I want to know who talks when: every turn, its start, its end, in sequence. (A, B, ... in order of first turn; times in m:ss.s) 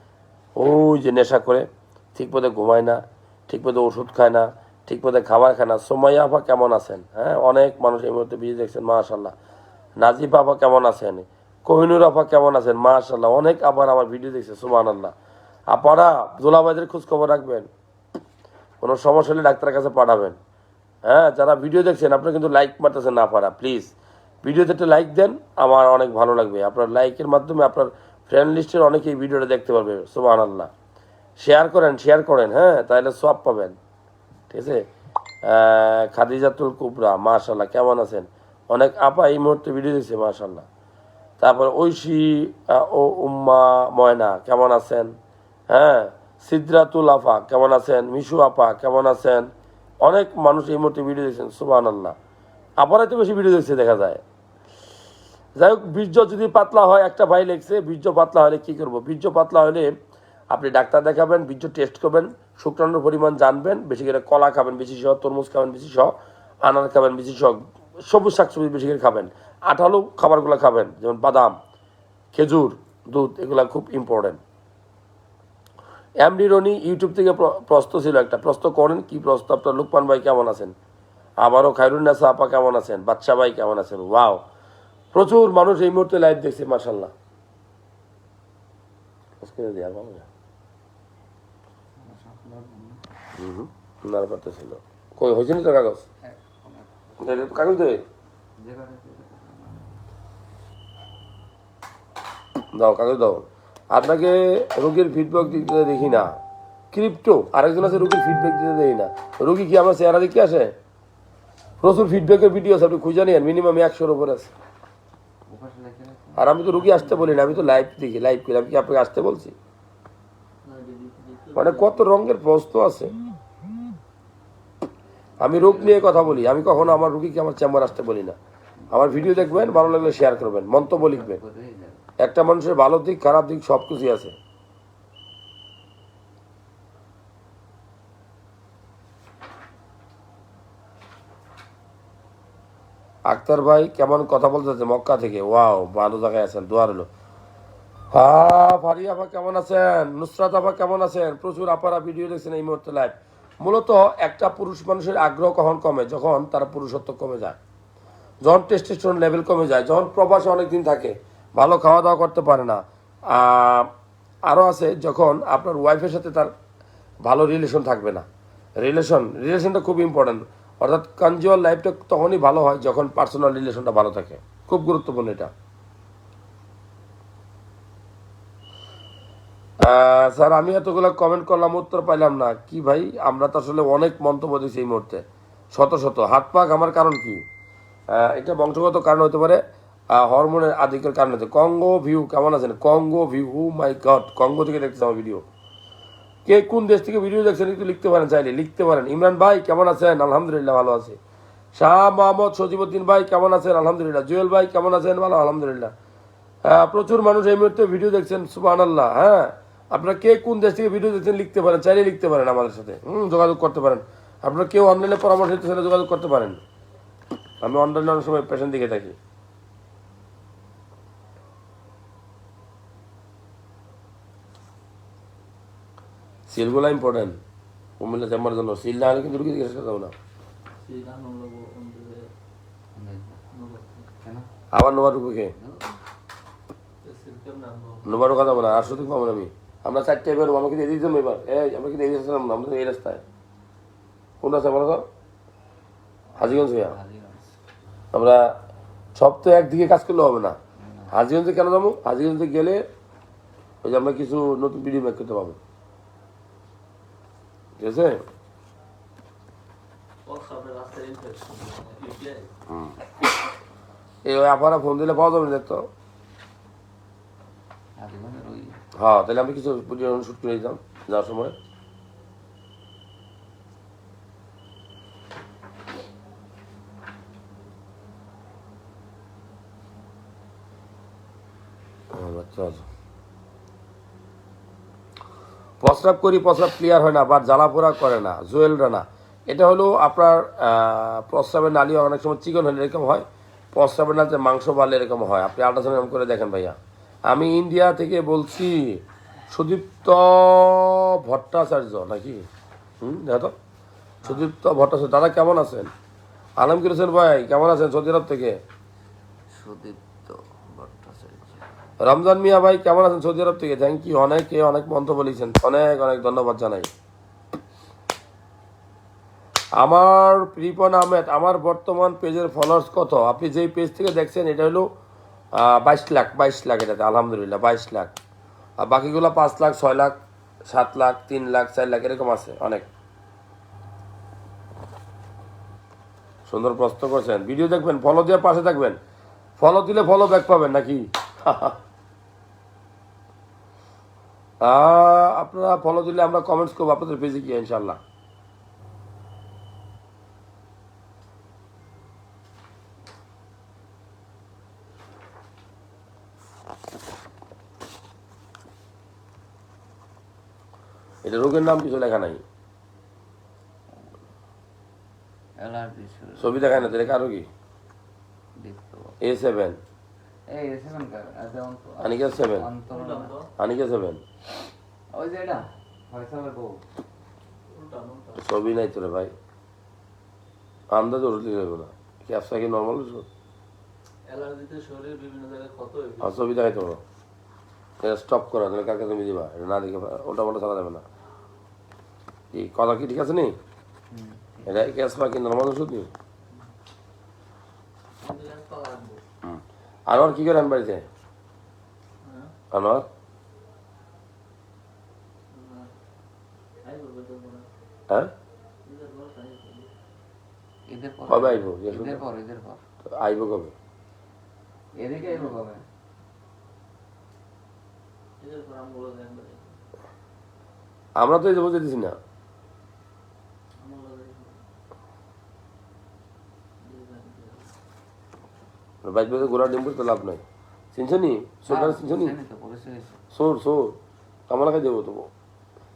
0:00.6-0:09.3 A
0:10.0-0:15.1 A
0:15.7-0:17.7 A
0:18.8-0:20.4 A
0:21.0-0:23.9 A
0:24.4-0:30.7 A
0:31.4-0:33.8 A
0:34.5-0:34.8 A
0:35.4-0:40.6 A
0:41.4-0:45.1 A
0:45.7-0:49.5 A
0:50.0-0:52.1 A
0:52.8-0:54.2 A
0:55.6-0:59.9 A
1:00.5-1:06.1 A
1:06.6-1:11.6 A
1:12.3-1:14.4 A
1:16.2-1:20.7 A
1:21.4-1:24.4 A
1:25.1-1:27.1 A
1:29.4-1:30.2 A
1:32.0-1:33.0 B
1:33.4-1:36.0 A
1:36.2-1:38.0 B
1:37.2-1:38.0 A
1:38.6-1:40.0 B
1:42.7-1:46.4 A
1:46.9-1:50.7 A
1:51.8-1:54.5 A
1:55.5-1:57.8 B
1:56.4-1:59.5 A
2:00.6-2:02.1 C
2:01.6-2:03.1 A
2:05.4-2:08.4 A
2:05.4-2:06.6 B
2:08.9-2:12.1 B
2:08.9-2:11.4 A
2:12.2-2:14.3 A
2:23.3-2:27.1 A
2:28.1-2:37.6 A
2:38.4-2:43.9 A
2:44.5-2:46.5 A
2:47.2-2:48.2 A
2:48.8-2:55.5 A
2:59.8-3:07.4 A
3:08.1-3:09.6 A
3:10.1-3:15.4 A
3:16.5-3:21.2 A
3:21.7-3:25.9 A
3:26.6-3:36.6 A
3:37.6-3:39.2 A
3:46.5-3:47.4 A
3:48.0-3:50.1 A
3:50.8-3:52.3 C
3:52.9-3:53.4 B
3:53.5-3:54.1 C
3:54.2-3:54.5 B
3:54.7-3:55.5 A
3:55.5-3:55.9 B
3:57.0-3:59.1 C
3:58.0-4:03.2 A
4:04.4-4:05.0 A
4:06.3-4:07.6 B
4:06.4-4:07.0 A
4:08.1-4:08.5 A
4:09.2-4:10.6 A
4:10.8-4:11.1 B
4:11.1-4:12.8 A
4:13.8-4:15.6 A
4:17.8-4:18.2 A
4:20.2-4:22.5 C
4:24.2-4:25.9 A
4:28.0-4:28.8 B
4:29.0-4:31.5 A
4:42.1-4:42.8 A
4:45.8-4:56.8 A
4:57.3-5:02.4 A
5:03.0-5:03.5 A
5:04.2-5:05.9 A
5:06.6-5:08.6 A
5:09.5-5:11.6 B
5:12.0-5:16.9 A
5:19.8-5:24.9 A
5:25.5-5:28.1 A
5:28.8-5:30.1 A
5:30.7-5:32.9 A
5:36.5-5:39.0 A
5:39.6-5:41.8 A
5:44.6-5:48.0 A
6:01.2-6:02.4 A
6:05.6-6:07.2 B
6:06.4-6:07.5 A
6:08.6-6:09.2 B
6:09.2-6:09.8 A
6:10.5-6:13.3 B
6:12.0-6:12.6 A
6:12.9-6:13.5 C
6:13.6-6:14.2 A
6:15.1-6:16.8 B
6:17.7-6:18.4 C
6:18.4-6:19.3 A
6:20.9-6:23.3 A
6:24.3-6:26.3 C
6:26.2-6:27.0 A
6:28.0-6:31.0 A
6:32.5-6:33.5 A
6:34.1-6:34.9 B
6:34.7-6:36.1 A
6:38.2-6:39.2 C
6:39.4-6:41.0 A
6:42.2-6:42.5 C
6:42.7-6:43.0 A
6:45.5-6:45.9 C
6:46.8-6:47.6 C
6:48.8-6:49.9 C
6:50.9-6:52.8 B
6:51.3-6:52.2 A
6:53.1-6:53.7 A
6:55.0-6:55.8 B
6:55.2-6:55.6 C
6:58.4-6:59.8 C
7:01.2-7:02.2 A
7:03.8-7:04.6 C
7:06.8-7:07.7 C
7:09.0-7:10.4 A
7:10.9-7:12.3 A
7:11.6-7:13.2 B
7:13.3-7:14.0 A
7:14.5-7:15.3 A